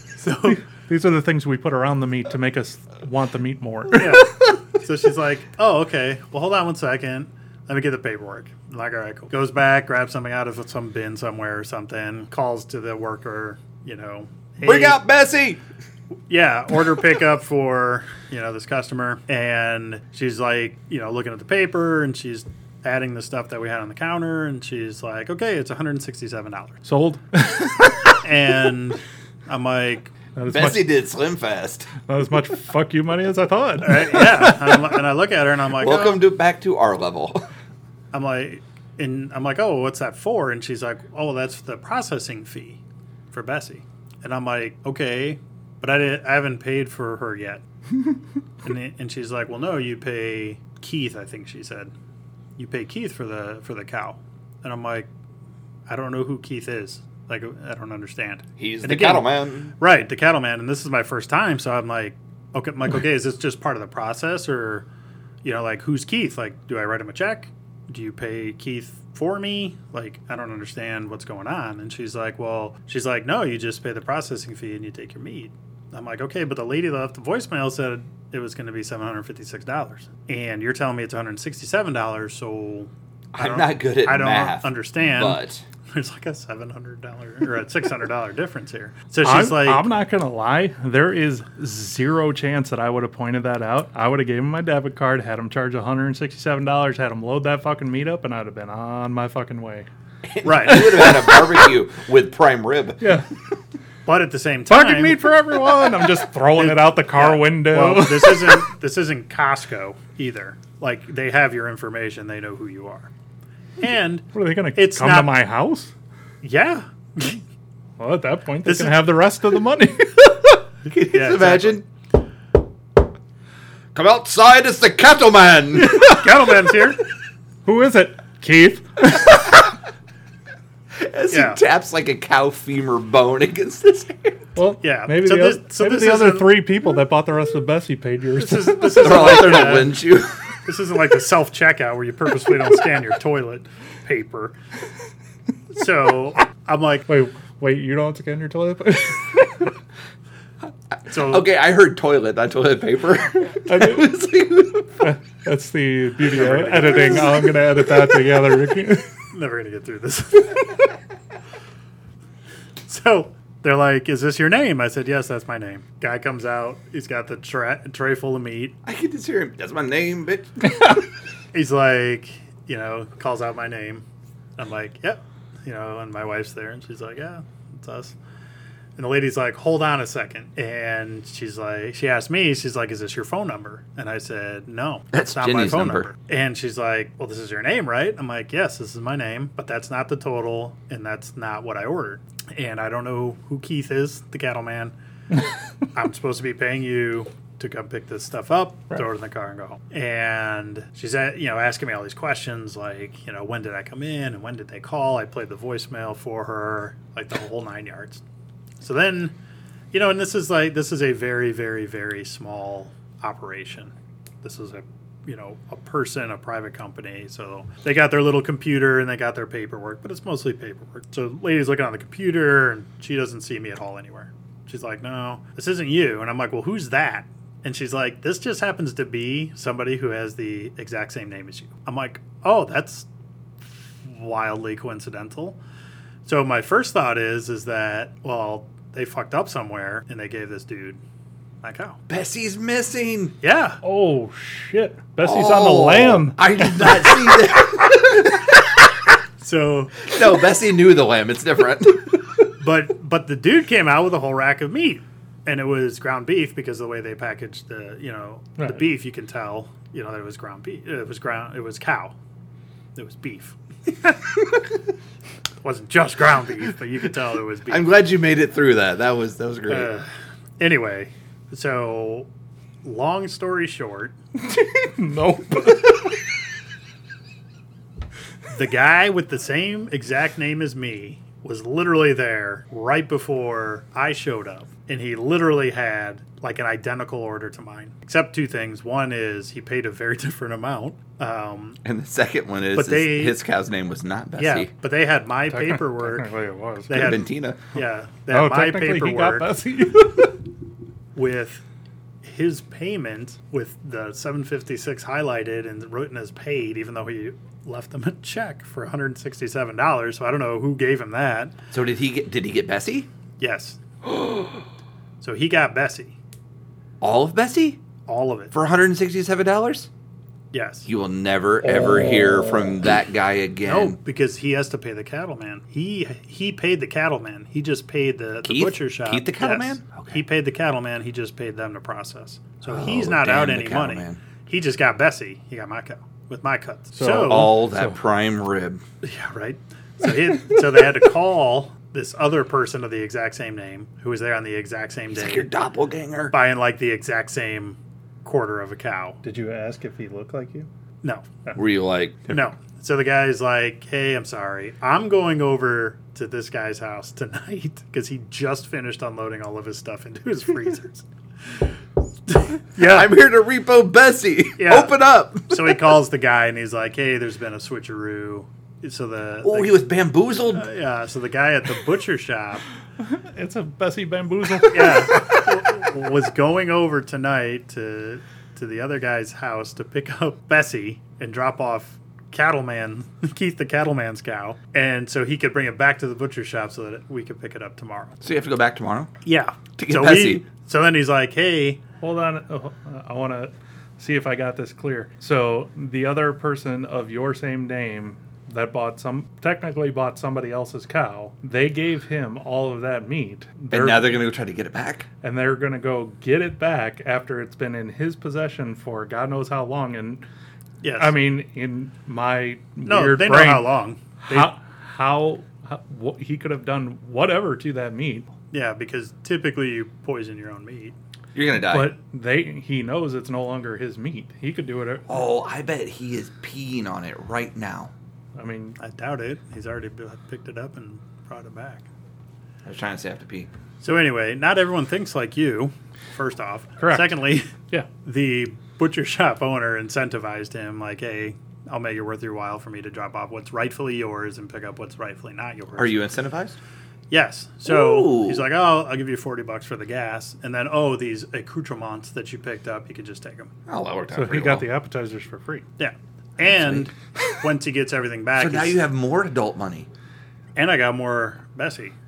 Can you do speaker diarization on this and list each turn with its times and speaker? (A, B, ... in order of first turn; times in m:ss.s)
0:00.2-0:00.6 A
0:00.4-0:04.2 B
0:03.9-0:15.0 A
0:14.6-0:15.6 C
0:16.3-0:26.8 A
0:26.8-0:28.2 B
0:28.2-0:30.1 A
0:30.4-0:30.9 B
0:30.5-0:31.9 C
0:32.1-0:34.8 B
0:33.8-0:36.3 A
0:35.8-0:37.4 C
0:38.1-0:42.8 A
0:43.3-0:47.6 A
0:48.6-0:51.9 A
0:52.6-0:55.1 A
0:55.9-1:04.9 A
0:58.6-0:59.7 C
1:05.4-1:29.9 A
1:23.3-1:25.6 C
1:29.2-1:39.9 B
1:40.2-1:43.0 C
1:40.4-1:41.0 A
1:40.7-1:41.5 B
1:43.0-1:43.3 B
1:44.1-1:45.3 A
1:44.7-1:48.7 B
1:46.6-1:53.1 A
1:53.8-1:55.4 A
1:54.3-1:55.9 B
1:56.4-1:57.4 A
1:58.0-2:00.3 B
1:58.6-1:59.1 A
2:00.9-2:01.8 C
2:01.0-2:01.8 A
2:03.9-2:06.1 C
2:05.8-2:06.3 B
2:05.9-2:07.0 A
2:07.6-2:09.6 B
2:11.0-2:14.4 C
2:11.3-2:11.6 A
2:14.6-2:19.2 B
2:14.8-2:16.6 A
2:18.4-2:20.0 A
2:18.9-2:20.4 C
2:20.6-2:24.6 A
2:25.7-2:27.1 A
2:27.1-2:29.4 B
2:31.1-2:31.5 A
2:31.1-2:35.1 C
2:33.7-2:34.1 B
2:35.0-2:39.1 B
2:36.2-2:37.5 A
2:39.3-2:40.8 A
2:42.9-2:48.8 A
2:48.8-2:51.0 C
2:51.5-2:54.0 A
2:54.6-2:58.1 A
2:59.0-3:14.9 A
3:05.1-3:06.1 C
3:15.9-3:28.2 A
3:28.8-3:29.3 A
3:29.9-3:53.0 A
3:54.0-3:55.6 A
3:56.2-4:01.0 A
4:01.6-4:02.0 A
4:02.1-4:03.4 C
4:03.4-4:03.8 A
4:03.8-4:07.1 B
4:05.2-4:08.5 C
4:09.4-4:10.1 A
4:10.0-4:12.2 C
4:12.6-4:22.2 A
4:18.6-4:18.9 B
4:23.0-4:24.2 A
4:25.6-4:28.0 A
4:27.7-4:29.9 C
4:29.7-4:30.1 A
4:30.6-4:32.3 A
4:32.8-4:34.2 A
4:34.4-4:36.1 B
4:38.5-4:51.8 A
4:51.8-4:54.7 C
4:52.8-4:53.4 A
4:54.4-4:56.3 A
4:55.5-4:57.2 B
4:56.9-4:59.5 A
4:56.9-4:57.6 C
4:58.3-5:00.4 B
5:01.2-5:01.6 A
5:02.2-5:11.5 A
5:11.7-5:13.1 C
5:13.4-5:13.8 A
5:15.2-5:16.2 A
5:17.0-5:17.8 C
5:18.1-5:18.5 A
5:18.5-5:19.9 C
5:20.5-5:20.9 A
5:20.9-5:24.0 C
5:21.6-5:22.4 B
5:23.6-5:37.5 A
5:28.4-5:30.2 C
5:32.7-5:34.2 C
5:37.0-5:38.0 B
5:37.1-5:38.8 C
5:39.0-5:45.5 A
5:45.1-5:46.3 C
5:46.3-5:49.2 A
5:49.2-5:50.7 B
5:51.6-5:52.5 C
5:52.3-6:01.6 A
6:02.3-6:03.2 A
6:02.8-6:05.8 C
6:04.6-6:09.8 A
6:09.4-6:10.6 C
6:10.5-6:12.6 A
6:13.0-6:15.4 B
6:14.7-6:28.2 A
6:28.2-6:29.1 C
6:29.2-6:31.8 A
6:29.8-6:30.4 C
6:32.0-6:44.2 B
6:43.7-6:45.1 C
6:45.2-6:50.2 B
6:50.8-6:51.1 A
6:51.0-6:58.3 B
6:52.9-6:54.5 A
6:58.5-7:01.0 A
7:01.3-7:01.9 C
7:01.7-7:05.1 B
7:05.1-7:07.9 C
7:08.4-7:08.8 B
7:08.8-7:11.9 A
7:12.6-7:13.5 C
7:13.8-7:17.5 A
7:16.8-7:17.2 B
7:18.0-7:26.0 A
7:25.8-7:26.6 C
7:27.1-7:33.5 A
7:27.7-7:28.4 C
7:33.7-7:34.7 C
7:34.1-7:35.7 B
7:35.8-7:38.8 A
7:36.4-7:36.9 C
7:38.4-7:39.9 C
7:40.6-7:41.9 A